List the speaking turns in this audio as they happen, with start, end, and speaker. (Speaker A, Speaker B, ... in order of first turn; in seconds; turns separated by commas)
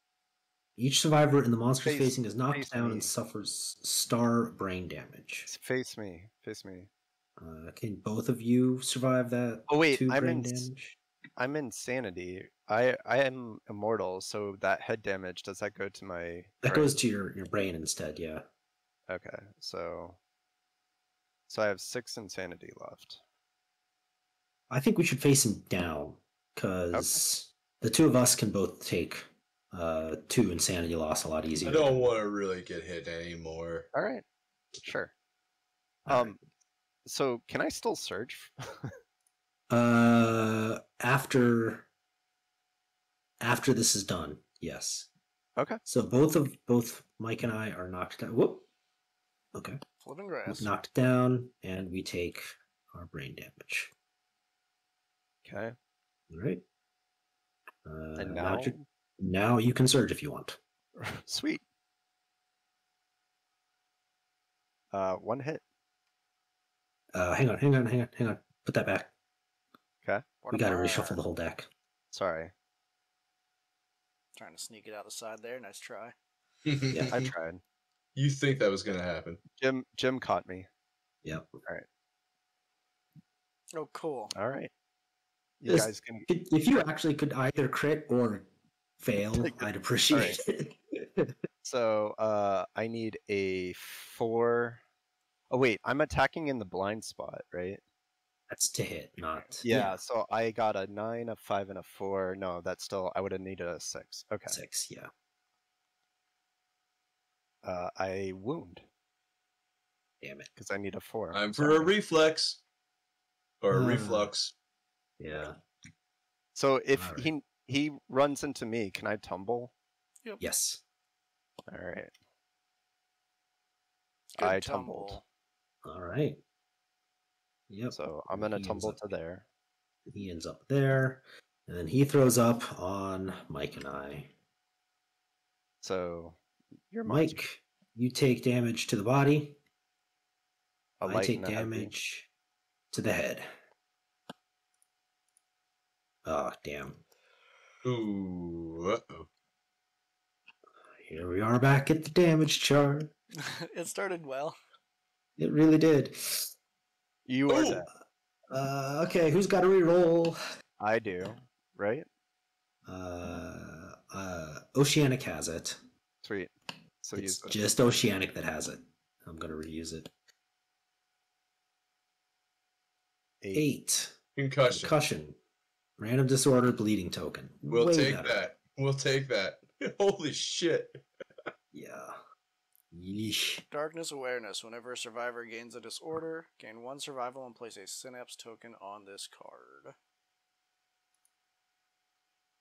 Speaker A: 0.8-5.5, Speaker B: 1.8-3.1, Speaker B: 5.5-6.9, Speaker A: 7.4-11.0, Speaker B: 9.7-10.7, Speaker B: 11.4-17.0, Speaker A: 16.6-18.4, Speaker B: 19.1-20.2, Speaker B: 21.5-23.2, Speaker A: 24.7-32.1, Speaker B: 26.9-27.2, Speaker C: 31.6-33.9, Speaker B: 33.9-34.2, Speaker B: 34.8-35.1, Speaker A: 36.1-36.4, Speaker B: 36.1-36.4, Speaker B: 37.0-38.9, Speaker A: 39.7-41.9, Speaker A: 43.4-45.1, Speaker A: 45.9-48.6, Speaker A: 49.5-49.8, Speaker D: 50.0-50.7, Speaker A: 50.5-53.9, Speaker B: 55.5-55.8, Speaker A: 56.3-56.6, Speaker A: 57.9-60.6, Speaker B: 58.2-58.9, Speaker B: 61.0-61.6, Speaker B: 64.9-65.6, Speaker A: 67.1-69.1, Speaker B: 70.0-70.3, Speaker D: 70.4-71.2, Speaker A: 70.5-71.7, Speaker B: 72.1-72.5, Speaker D: 74.4-76.2, Speaker C: 76.7-77.3, Speaker A: 76.9-77.2, Speaker B: 77.1-77.6, Speaker C: 78.2-79.4, Speaker B: 79.6-80.7, Speaker A: 81.2-81.5, Speaker D: 83.7-84.3, Speaker B: 84.3-84.7, Speaker B: 85.6-86.3, Speaker A: 85.7-88.5, Speaker A: 89.0-91.3, Speaker B: 89.4-90.4, Speaker B: 91.6-94.8, Speaker B: 95.5-97.8, Speaker A: 98.5-100.0, Speaker B: 99.6-104.6, Speaker A: 104.5-105.1, Speaker B: 107.6-108.8, Speaker A: 110.2-110.5, Speaker B: 110.6-111.9, Speaker C: 111.3-112.6, Speaker C: 113.6-114.5, Speaker A: 113.7-114.3, Speaker A: 115.2-115.6, Speaker B: 116.5-119.7, Speaker A: 117.0-117.3, Speaker A: 120.4-120.8, Speaker B: 121.7-122.1, Speaker D: 124.3-125.2, Speaker B: 124.4-125.2, Speaker A: 125.8-126.4, Speaker A: 127.7-129.1, Speaker B: 127.9-129.5, Speaker A: 130.1-134.3, Speaker B: 135.8-136.4, Speaker B: 136.9-137.4, Speaker A: 137.1-139.6, Speaker B: 141.0-141.9, Speaker A: 141.1-142.3, Speaker A: 142.9-143.5, Speaker A: 146.2-147.0, Speaker C: 147.8-149.3, Speaker A: 151.0-153.1, Speaker D: 153.4-154.6, Speaker A: 155.4-156.5, Speaker B: 157.3-157.9, Speaker C: 157.5-157.8, Speaker A: 158.5-160.4, Speaker B: 160.8-162.1, Speaker A: 162.9-165.8, Speaker B: 166.2-167.6, Speaker A: 167.2-170.1, Speaker A: 173.5-174.2, Speaker C: 174.4-175.0, Speaker A: 174.7-175.4, Speaker A: 176.0-178.4, Speaker C: 177.7-181.0, Speaker A: 181.7-182.2, Speaker A: 182.9-183.6, Speaker D: 183.7-189.9